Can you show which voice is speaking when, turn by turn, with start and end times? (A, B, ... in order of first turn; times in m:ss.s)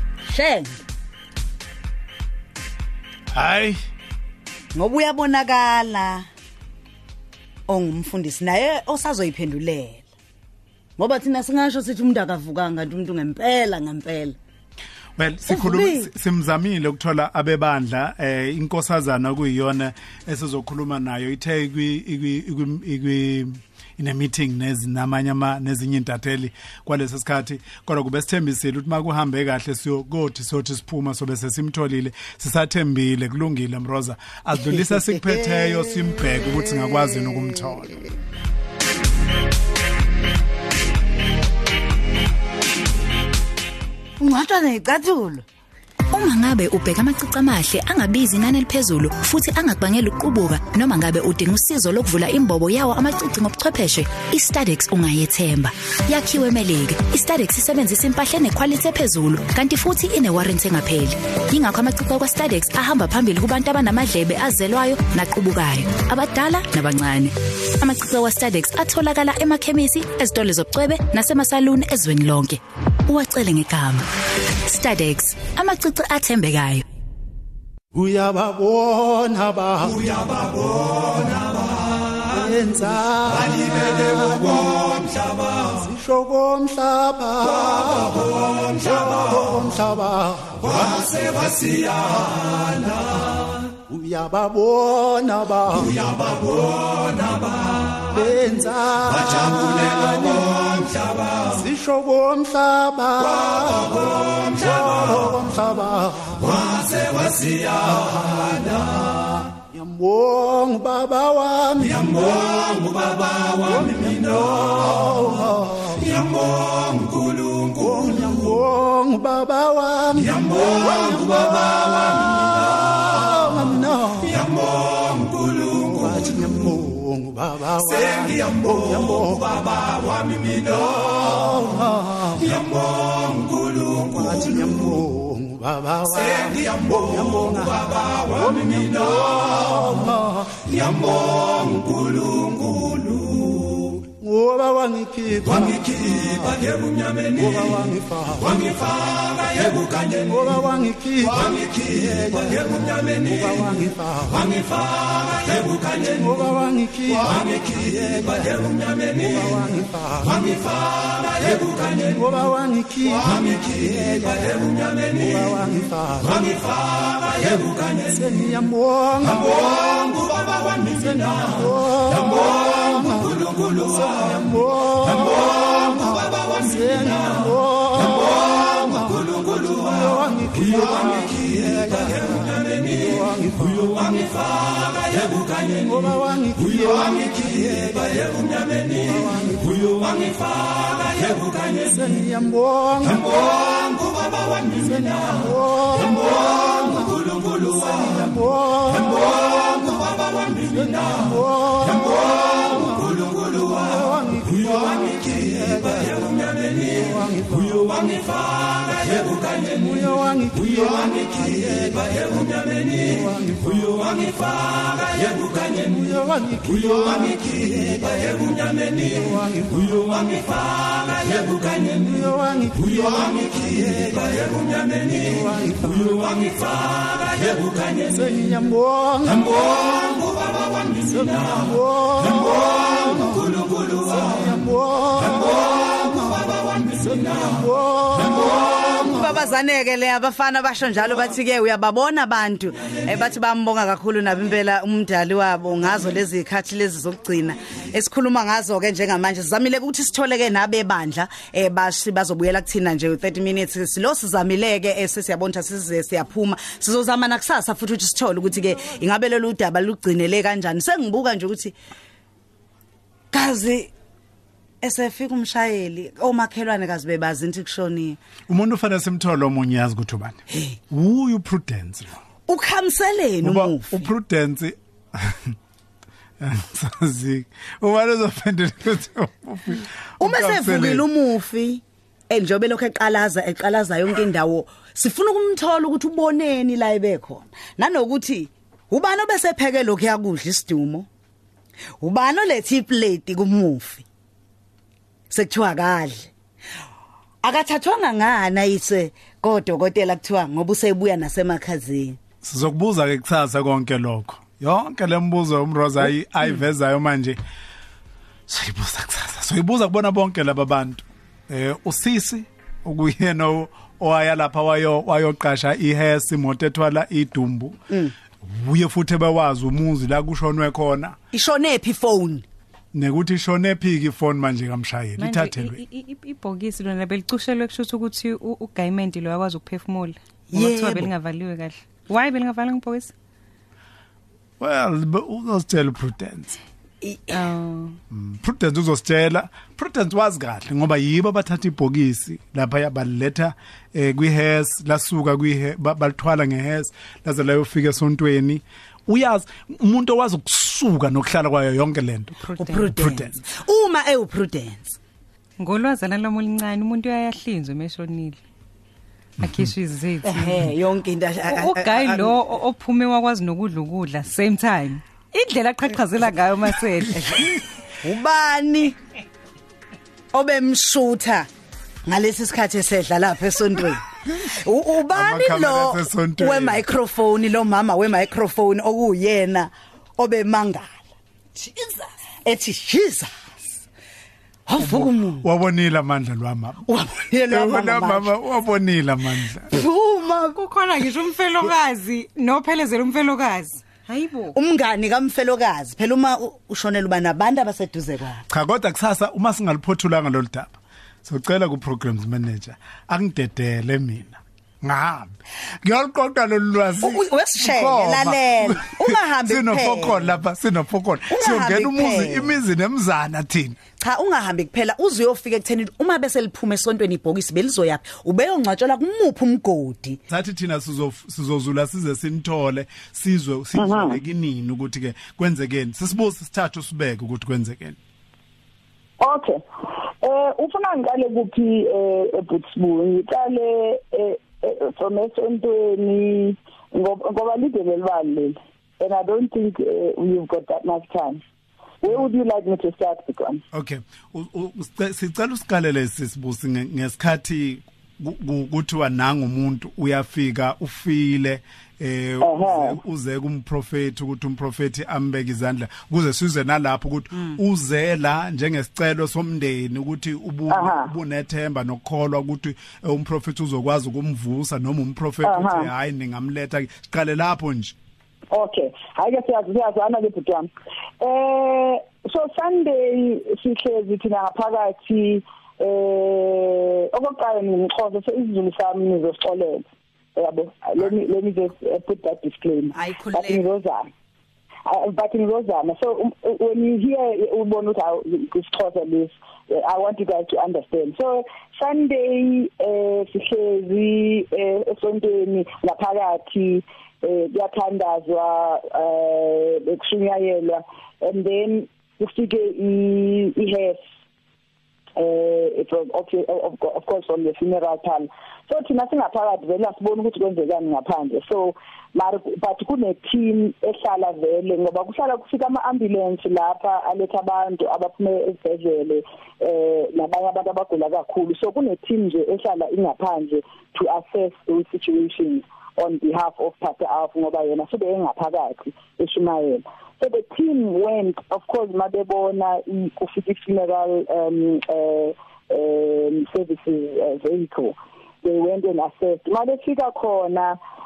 0:00.2-0:00.8 A
0:03.3-0:03.8 B
0:04.7-0:06.3 A
0:07.7-0:10.0 A
0:11.0-0:14.4 A
0:15.2-0:38.0 B
0:15.5-0:16.1 A
0:34.6-0:37.7 A
0:44.2-0:45.4 A
0:46.1-1:14.1 C
1:14.6-1:16.8 C
1:17.9-1:21.5 D
1:22.2-1:32.9 D
1:33.9-1:37.0 D
1:38.0-1:48.6 D
1:49.7-2:23.4 D
2:24.2-3:59.0 D
3:59.0-4:21.8 A
4:23.3-4:23.9 A
4:24.8-4:28.2 A
4:28.5-4:32.2 B
4:30.5-4:30.8 A
4:32.5-4:34.1 A
4:33.4-4:35.6 B
4:36.4-4:41.0 B
4:40.2-4:51.1 A
4:52.0-4:54.0 A
4:55.3-4:56.3 A
4:57.4-5:02.2 A
5:02.4-5:07.4 B
5:08.5-5:17.8 B
5:18.4-5:21.2 B
5:21.3-5:22.4 A
5:22.9-5:25.8 B
5:25.2-5:33.1 E
5:30.5-5:31.1 A
5:34.6-5:36.6 B
5:37.0-5:37.5 A
5:37.3-5:38.0 E
5:38.1-5:52.3 B
5:52.4-5:52.9 E
5:52.6-5:55.0 A
5:52.9-5:53.3 B
5:55.6-5:58.4 E
5:59.4-6:00.7 E
5:59.4-5:59.7 B
6:00.2-6:02.4 A
6:01.4-6:07.5 E
6:07.1-6:09.0 A
6:10.3-6:11.5 A
6:12.0-6:21.0 A
6:15.1-6:16.8 B
6:21.5-6:23.6 A
6:24.6-6:25.4 A
6:24.8-6:26.9 B
6:26.9-6:28.3 A
6:27.5-6:29.8 B
6:29.7-6:30.6 A
6:30.5-6:34.6 E
6:34.5-6:38.4 A
6:38.5-6:53.8 B
6:47.0-6:50.4 A
6:51.3-6:52.5 A
6:54.0-7:00.2 A
7:00.3-7:08.0 B
7:03.7-7:04.2 F
7:09.2-7:09.6 F
7:10.2-7:21.4 F
7:22.0-7:23.6 F
7:23.7-7:47.9 B
7:32.4-7:33.0 F
7:40.7-7:41.1 F
7:45.4-7:45.9 F
7:48.5-7:50.7 F
7:51.2-8:04.1 F
8:02.9-8:03.6 A
8:04.8-8:24.0 F
8:25.2-9:00.8 F